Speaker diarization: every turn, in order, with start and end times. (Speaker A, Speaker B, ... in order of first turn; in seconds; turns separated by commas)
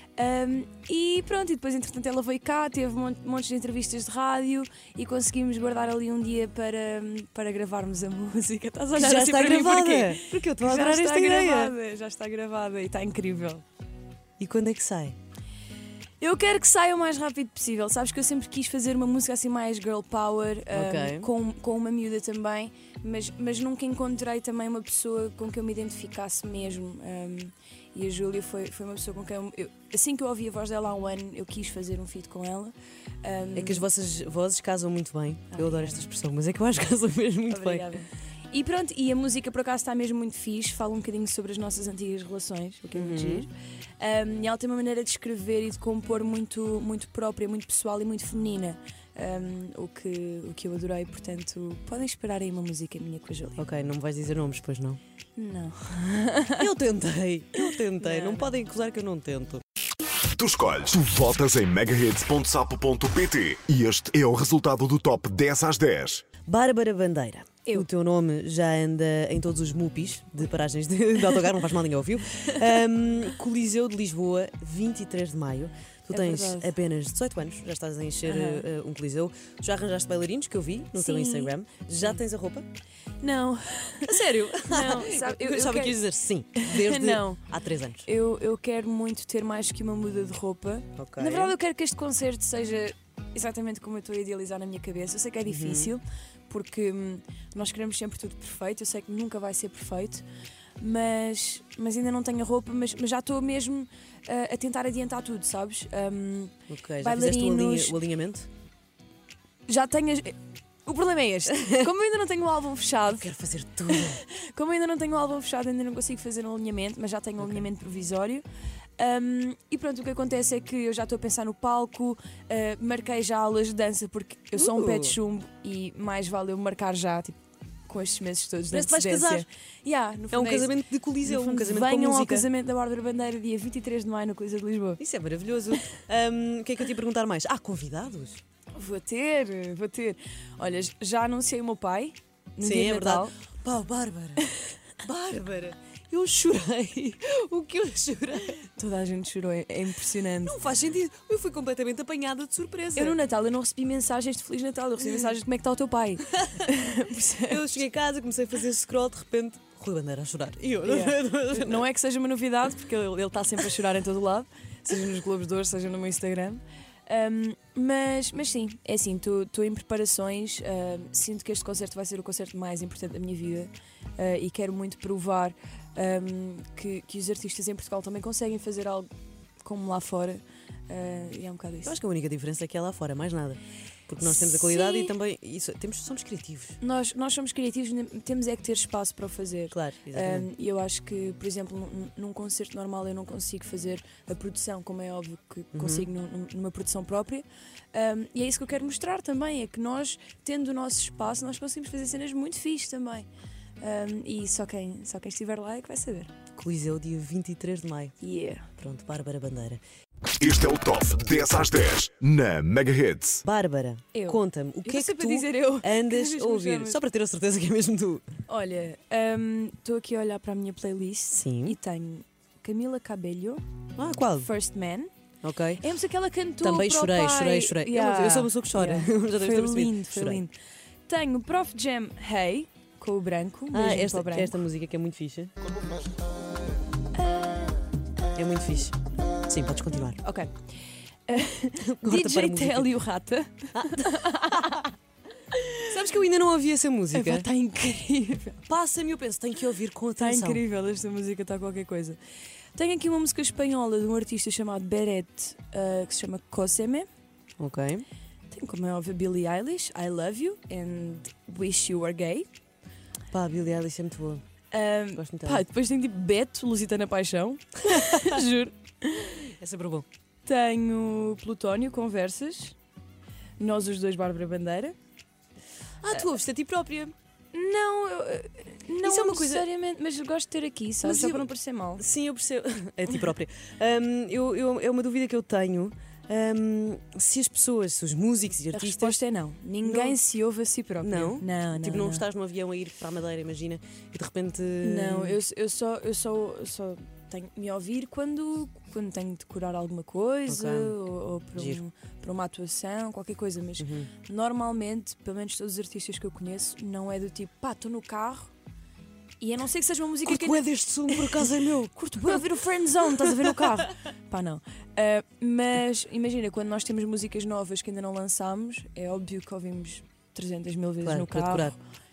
Speaker A: 0.2-13.6, Speaker B: 8.9-11.8, Speaker B: 14.4-15.2, Speaker A: 16.2-33.8, Speaker B: 20.7-21.3, Speaker B: 33.5-37.9, Speaker A: 35.5-36.0, Speaker A: 37.5-53.6, Speaker B: 42.9-43.5, Speaker B: 53.6-55.0, Speaker A: 55.4-56.7, Speaker B: 56.6-59.6, Speaker A: 58.0-58.5, Speaker C: 60.3-66.2, Speaker B: 66.5-82.7, Speaker A: 76.1-76.7, Speaker A: 78.3-78.7, Speaker A: 81.0-81.5, Speaker A: 83.2-84.2, Speaker B: 84.1-88.1, Speaker A: 84.7-86.0, Speaker A: 86.5-87.4, Speaker A: 88.0-100.2, Speaker B: 91.0-91.6, Speaker B: 95.4-96.0, Speaker A: 100.8-108.0, Speaker B: 106.7-108.5, Speaker A: 109.7-113.3, Speaker B: 111.5-111.9, Speaker B: 113.1-114.2, Speaker A: 113.9-118.5, Speaker B: 117.4-117.7, Speaker A: 119.0-130.7, Speaker B: 124.5-125.2, Speaker B: 128.7-129.5, Speaker B: 130.3-132.5, Speaker A: 131.2-135.0, Speaker B: 135.0-138.4, Speaker A: 138.7-143.3, Speaker B: 142.6-144.5, Speaker B: 145.0-148.7, Speaker A: 148.7-150.6, Speaker B: 150.4-153.2, Speaker A: 153.0-157.7, Speaker B: 156.4-156.7, Speaker B: 157.5-161.9, Speaker A: 160.8-179.1, Speaker A: 179.6-181.9, Speaker B: 181.8-186.8, Speaker A: 184.4-185.2, Speaker A: 186.8-203.3, Speaker B: 189.7-190.5, Speaker B: 195.7-196.1, Speaker A: 203.8-206.3, Speaker B: 206.6-208.1, Speaker A: 208.2-208.7, Speaker B: 208.8-209.8, Speaker C: 210.4-213.4, Speaker B: 213.4-218.2, Speaker A: 214.1-217.0, Speaker A: 218.5-223.6, Speaker B: 221.3-221.8, Speaker B: 224.0-224.5, Speaker A: 224.4-225.1, Speaker B: 225.4-225.8, Speaker A: 225.8-230.5, Speaker B: 226.6-230.4, Speaker A: 231.1-234.5, Speaker B: 233.7-235.5, Speaker A: 237.3-237.7, Speaker B: 238.3-239.0, Speaker B: 239.5-240.2, Speaker A: 240.2-240.5, Speaker A: 241.3-244.9, Speaker B: 241.8-243.0, Speaker B: 243.8-244.8, Speaker A: 245.5-245.9, Speaker B: 245.9-247.5, Speaker A: 247.1-248.7, Speaker B: 248.7-250.7, Speaker A: 250.2-252.2, Speaker A: 252.8-257.1, Speaker B: 257.6-258.0, Speaker A: 258.5-262.5, Speaker B: 263.3-264.4, Speaker A: 264.7-269.4, Speaker B: 265.1-265.6, Speaker B: 267.8-268.4, Speaker B: 269.4-270.1, Speaker A: 270.5-272.8, Speaker A: 273.6-275.0, Speaker B: 276.0-277.1, Speaker A: 277.5-282.0, Speaker B: 279.0-279.6, Speaker B: 281.0-289.2, Speaker A: 288.7-292.2, Speaker B: 289.8-290.2, Speaker B: 291.0-295.4, Speaker A: 294.8-308.5, Speaker B: 300.5-301.0, Speaker B: 301.6-301.8, Speaker B: 303.8-304.1, Speaker A: 309.4-321.8, Speaker B: 310.2-313.9, Speaker B: 321.0-321.7